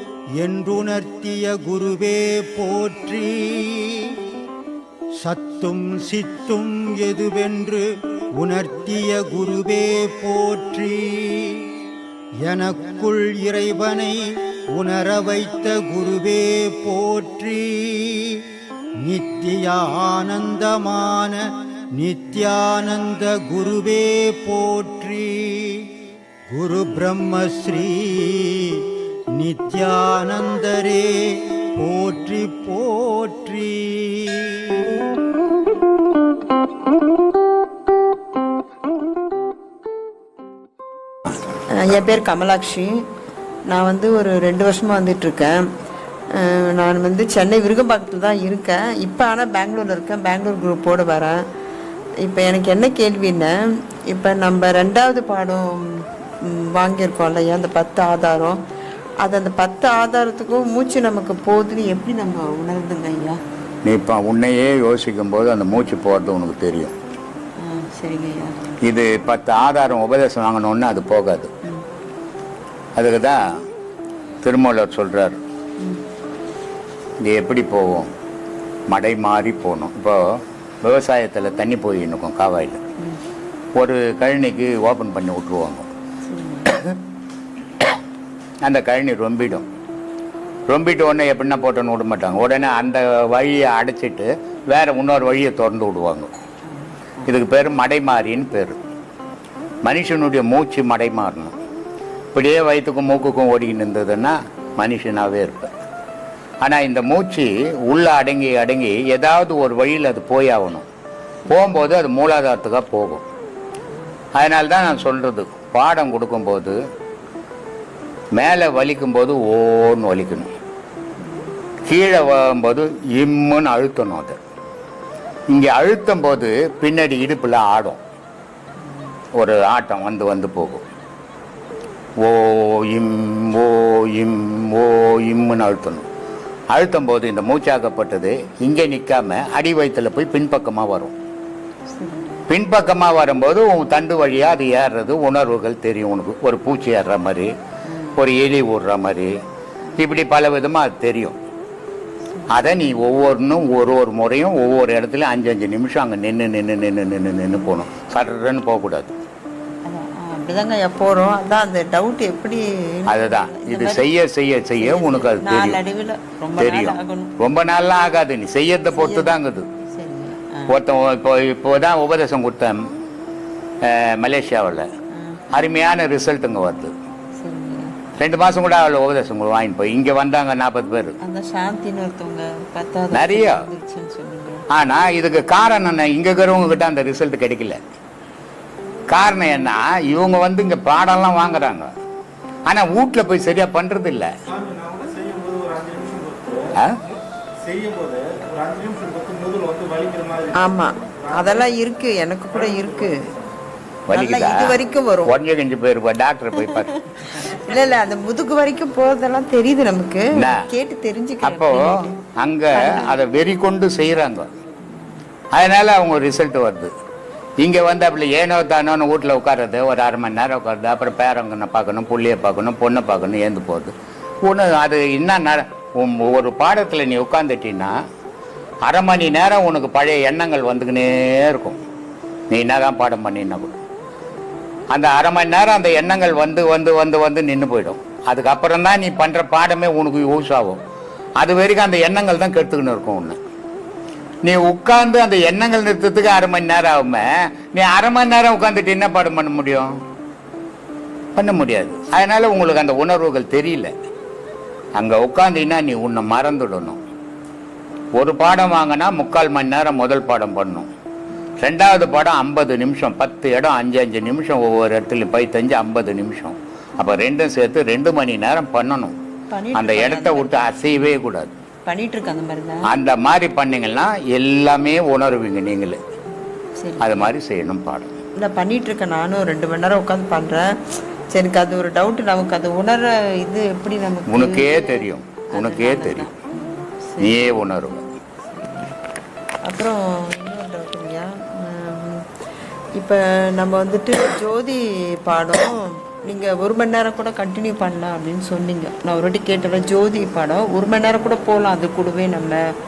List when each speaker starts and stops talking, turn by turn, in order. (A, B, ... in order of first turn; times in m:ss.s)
0:00.4-0:04.2 A
0:05.2-0:11.7 A
0:12.4-0:18.4 A
0:19.0-0:25.9 A
0:26.5-0:34.9 A
0:41.7-0:43.0 B
0:43.7-0:45.7 B
0:46.3-0:51.4 B
0:52.2-0:53.6 B
0:54.1-0:58.6 B
0:59.2-1:03.4 B
1:03.8-1:06.9 C
1:07.6-1:08.6 B
1:08.9-1:11.5 C
1:13.0-1:13.6 C
1:14.4-1:15.4 C
1:17.2-1:18.1 C
1:18.9-1:22.8 C
1:23.8-1:25.9 C
1:26.2-1:26.8 B
1:28.6-1:29.6 C
1:30.7-1:36.3 C
1:36.7-1:37.3 B
1:37.2-1:38.8 C
1:39.8-1:41.5 C
1:42.3-1:45.7 C
1:46.6-1:50.8 C
1:51.5-1:53.2 C
1:54.4-1:56.8 C
1:58.3-2:00.5 C
2:01.2-2:01.5 B
2:01.8-2:04.4 C
2:05.5-2:08.0 C
2:09.3-2:10.8 C
2:12.2-2:16.1 C
2:16.7-2:21.1 C
2:21.9-2:22.5 B
2:22.5-2:27.5 C
2:27.8-2:28.2 B
2:28.2-2:29.4 C
2:30.0-2:31.4 C
2:32.3-2:32.6 B
2:32.5-2:39.1 C
2:39.8-2:44.1 B
2:43.1-2:45.8 C
2:44.8-2:47.3 B
2:46.6-2:49.7 C
2:48.9-2:49.4 B
2:49.9-2:50.8 B
2:50.7-2:52.8 C
2:53.8-2:54.9 C
2:55.1-2:55.4 B
2:55.5-2:56.9 C
2:57.4-2:58.0 B
2:58.2-3:01.2 C
3:01.2-3:04.6 B
3:03.1-3:03.6 C
3:04.7-3:07.8 C
3:09.1-3:11.9 C
3:12.6-3:14.3 C
3:14.6-3:16.7 D
3:17.6-3:20.5 D
3:20.5-3:23.3 B
3:24.1-3:27.0 C
3:24.1-3:25.3 B
3:26.7-3:32.2 B
3:30.4-3:30.6 C
3:31.4-3:34.5 C
3:32.7-3:33.2 B
3:35.5-3:36.9 C
3:37.6-3:43.9 C
3:44.4-3:48.0 C
3:48.8-3:51.8 C
3:52.5-3:53.8 C
3:54.9-4:00.8 C
4:01.4-4:03.4 C
4:04.4-4:10.0 C
4:11.4-4:13.9 C
4:14.9-4:17.0 C
4:18.2-4:20.9 C
4:21.6-4:29.2 C
4:29.5-4:31.1 B
4:29.7-4:31.5 C
4:31.8-4:32.9 B
4:32.9-4:36.0 C
4:36.8-4:37.3 B
4:37.0-4:38.1 C
4:38.4-4:40.7 B
4:41.3-4:47.6 B
4:44.3-4:46.3 C
4:47.2-4:48.0 C
4:48.5-4:48.9 B
4:49.6-4:52.2 B
4:53.0-5:02.6 B